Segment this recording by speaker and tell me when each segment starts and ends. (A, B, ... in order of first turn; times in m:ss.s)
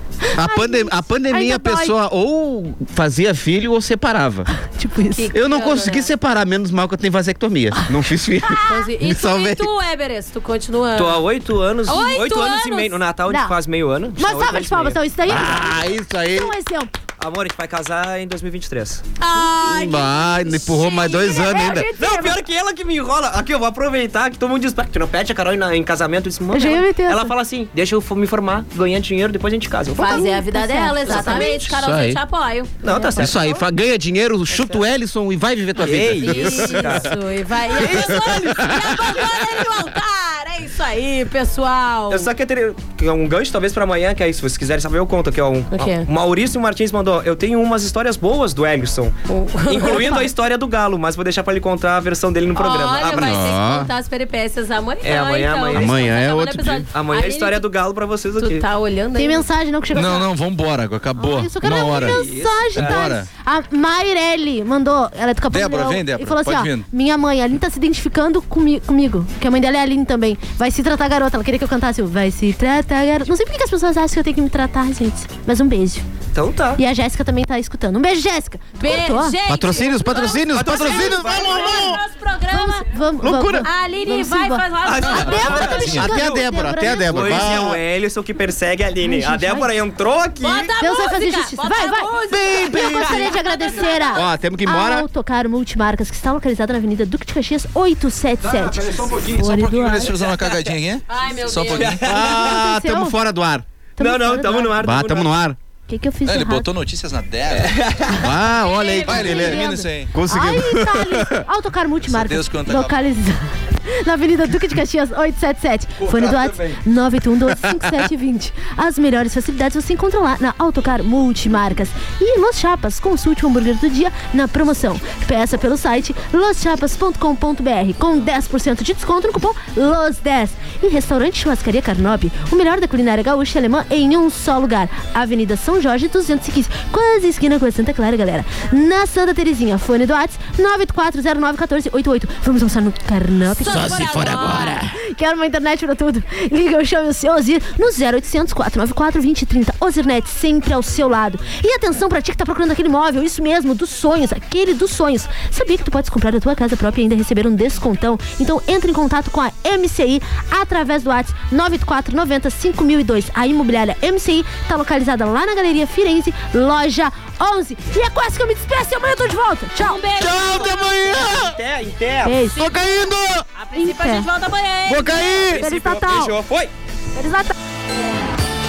0:00.3-0:01.9 A
0:00.3-0:04.5 B
0:04.7-0:05.3 A
0:05.1-0:06.1 C
0:05.3-0:09.7 B
0:08.6-0:11.2 C
0:10.9-0:15.0 D
0:11.9-0:13.0 C
0:13.3-0:13.5 A
0:14.2-0:16.9 A
0:15.2-0:16.5 B
0:17.2-0:19.0 D
0:19.2-0:21.8 C
0:19.6-0:21.9 B
0:21.2-0:22.4 A
0:21.9-0:30.2 D
0:26.5-0:27.3 A
0:29.9-0:33.3 C
0:30.0-0:31.6 A
0:31.1-0:31.7 D
0:31.7-0:32.2 B
0:32.8-0:33.6 D
0:33.2-0:37.0 B
0:34.5-0:34.8 D
0:35.8-0:37.1 D
0:36.2-0:42.3 C
0:37.8-0:38.4 D
0:37.9-0:38.9 B
0:42.1-0:49.1 D
0:45.7-0:46.1 C
0:49.3-0:50.2 C
0:49.6-0:53.5 D
0:52.5-0:57.6 C
0:53.1-0:53.9 B
0:55.0-0:56.0 D
0:55.7-0:56.8 B
0:56.8-0:58.6 D
0:58.4-0:59.5 C
0:59.2-1:00.3 A
0:59.9-1:02.2 E
1:01.2-1:16.0 A
1:01.9-1:03.0 D
1:02.7-1:03.3 E
1:05.5-1:06.9 E
1:16.3-1:16.8 D
1:16.8-1:19.4 A
1:18.8-1:22.9 C
1:19.5-1:22.0 B
1:20.5-1:22.0 D
1:22.5-1:27.5 A
1:23.2-1:23.6 B
1:23.5-1:26.0 C
1:24.8-1:25.9 D
1:25.0-1:26.1 E
1:25.8-1:27.8 B
1:26.8-1:30.7 D
1:29.0-1:29.7 A
1:30.4-1:34.3 C
1:30.8-1:40.2 A
1:32.3-1:33.4 B
1:34.1-1:35.1 B
1:38.6-1:42.1 E
1:41.1-1:42.0 C
1:41.7-1:42.6 D
1:42.0-1:43.6 B
1:42.2-1:43.2 A
1:44.0-1:44.9 A
1:44.0-1:45.3 D
1:44.8-1:45.6 B
1:45.9-1:46.7 A
1:46.2-1:47.9 E
1:47.5-1:48.2 D
1:48.1-1:51.4 B
1:48.4-2:24.2 A
1:48.6-1:49.5 C
1:49.0-1:50.1 E
1:52.0-1:53.0 E
1:56.0-1:56.8 D
2:23.6-2:24.8 C
2:23.6-2:25.0 B
2:24.9-2:50.0 A
2:49.8-2:51.3 C
2:50.2-2:51.6 B
2:51.2-2:52.4 D
2:52.2-2:52.7 A
2:52.5-2:53.4 B
2:53.5-2:55.6 C
2:53.8-2:54.3 A
2:54.9-2:55.6 B
2:55.4-2:56.7 D
2:55.6-2:56.4 A
2:57.1-2:57.5 A